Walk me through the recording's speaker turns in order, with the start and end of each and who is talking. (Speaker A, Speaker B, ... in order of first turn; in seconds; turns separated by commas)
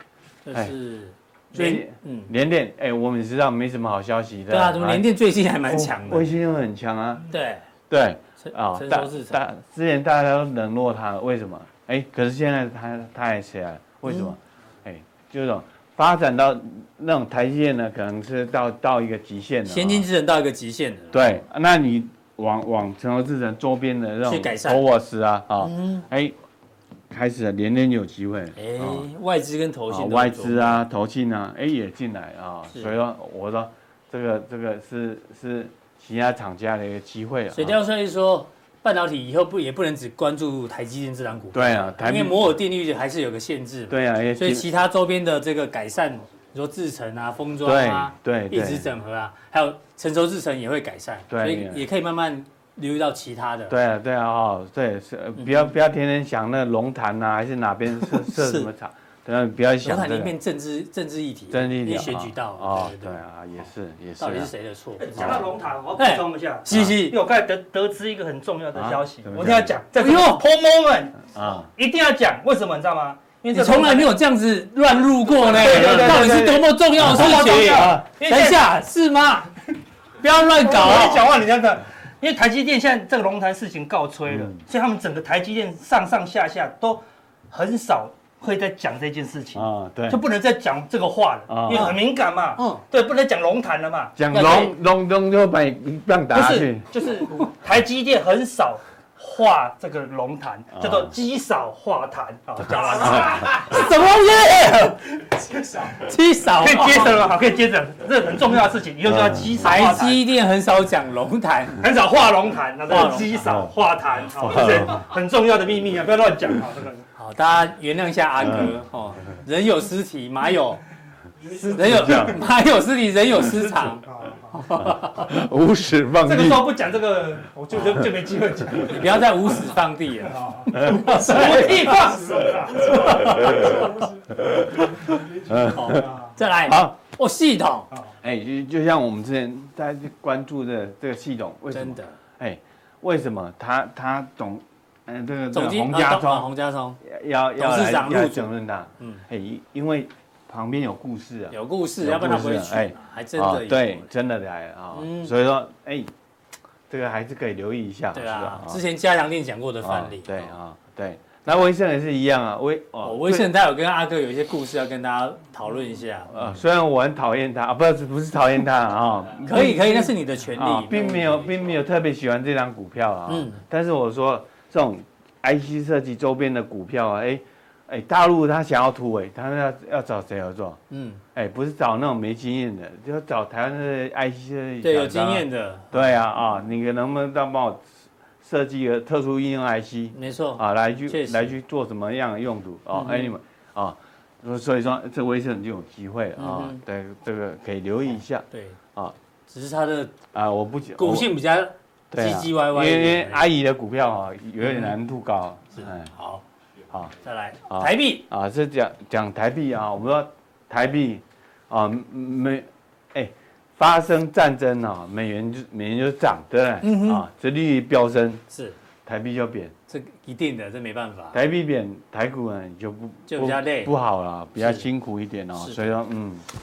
Speaker A: 0.5-2.3, Speaker B: 1.5-5.1, Speaker A: 4.5-6.3, Speaker B: 5.6-7.3, Speaker A: 7.3-7.7, Speaker B: 7.9-20.1, Speaker A: 8.4-9.4, Speaker A: 14.1-14.3, Speaker A: 19.7-21.4, Speaker B: 21.1-26.4, Speaker A: 24.3-24.9, Speaker A: 25.6-26.1, Speaker B: 27.1-29.1, Speaker A: 28.6-30.8, Speaker B: 29.9-37.8, Speaker A: 37.5-53.8, Speaker B: 41.5-42.6, Speaker B: 43.9-44.7, Speaker B: 47.6-48.9, Speaker B: 51.3-51.9, Speaker B: 53.7-60.4, Speaker A: 55.4-55.7, Speaker A: 58.2-58.7, Speaker A: 59.8-63.2, Speaker B: 61.5-64.5, Speaker A: 64.2-67.2, Speaker C: 65.0-74.2, Speaker B: 65.2-65.5, Speaker B: 66.7-67.0, Speaker B: 68.8-69.8, Speaker A: 70.0-70.4, Speaker B: 71.3-71.7, Speaker A: 73.5-79.5, Speaker C: 75.4-78.6, Speaker B: 75.5-78.1, Speaker A: 80.2-81.2, Speaker C: 80.5-94.2, Speaker B: 84.3-84.6, Speaker B: 89.5-90.2, Speaker B: 91.5-92.0, Speaker A: 91.7-92.0, Speaker A: 92.6-92.8, Speaker B: 94.2-96.9, Speaker A: 94.3-94.7, Speaker C: 96.3-104.1, Speaker B: 100.8-101.1, Speaker A: 103.1-105.1, Speaker C: 105.5-106.0, Speaker A: 105.9-107.3, Speaker C: 106.6-110.3, Speaker B: 109.1-109.6, Speaker A: 109.6-111.8, Speaker C: 111.8-117.1, Speaker A: 112.9-113.3, Speaker B: 114.4-115.0, Speaker A: 117.2-120.8, Speaker B: 118.5-118.7, Speaker A: 121.5-125.3, Speaker B: 121.8-122.4, Speaker C: 123.4-124.6, Speaker B: 124.8-126.8, Speaker C: 126.2-129.6, Speaker A: 128.8-132.0, Speaker C: 130.2-134.1, Speaker B: 130.7-136.1, Speaker A: 132.8-134.0, Speaker A: 135.6-137.9, Speaker C: 135.8-136.3, Speaker B: 136.6-136.9, Speaker C: 137.9-138.2, Speaker B: 138.2-156.1, Speaker A: 141.7-142.2, Speaker A: 145.5-147.0, Speaker A: 147.6-148.5, Speaker A: 151.5-154.1, Speaker A: 154.9-155.3, Speaker B: 156.9-158.8, Speaker A: 158.1-160.5, Speaker B: 159.8-163.5, Speaker A: 163.0-166.5, Speaker B: 166.3-180.8, Speaker A: 169.4-171.5, Speaker A: 173.3-173.6, Speaker A: 180.9-181.2, Speaker B: 181.3-199.1, Speaker A: 184.8-186.0, Speaker A: 190.1-191.5, Speaker A: 192.9-193.3, Speaker A: 196.4-196.8, Speaker A: 198.5-198.8, Speaker A: 199.5-200.2, Speaker B: 200.3-201.3, Speaker A: 201.0-203.4, Speaker B: 202.1-206.1, Speaker A: 204.6-204.9, Speaker A: 205.7-206.4, Speaker A: 207.2-208.3, Speaker B: 207.7-218.4, Speaker A: 216.8-217.2, Speaker A: 218.5-218.8, Speaker B: 219.1-219.7, Speaker A: 219.9-221.4, Speaker B: 221.3-226.5, Speaker A: 223.3-223.9, Speaker A: 224.6-224.9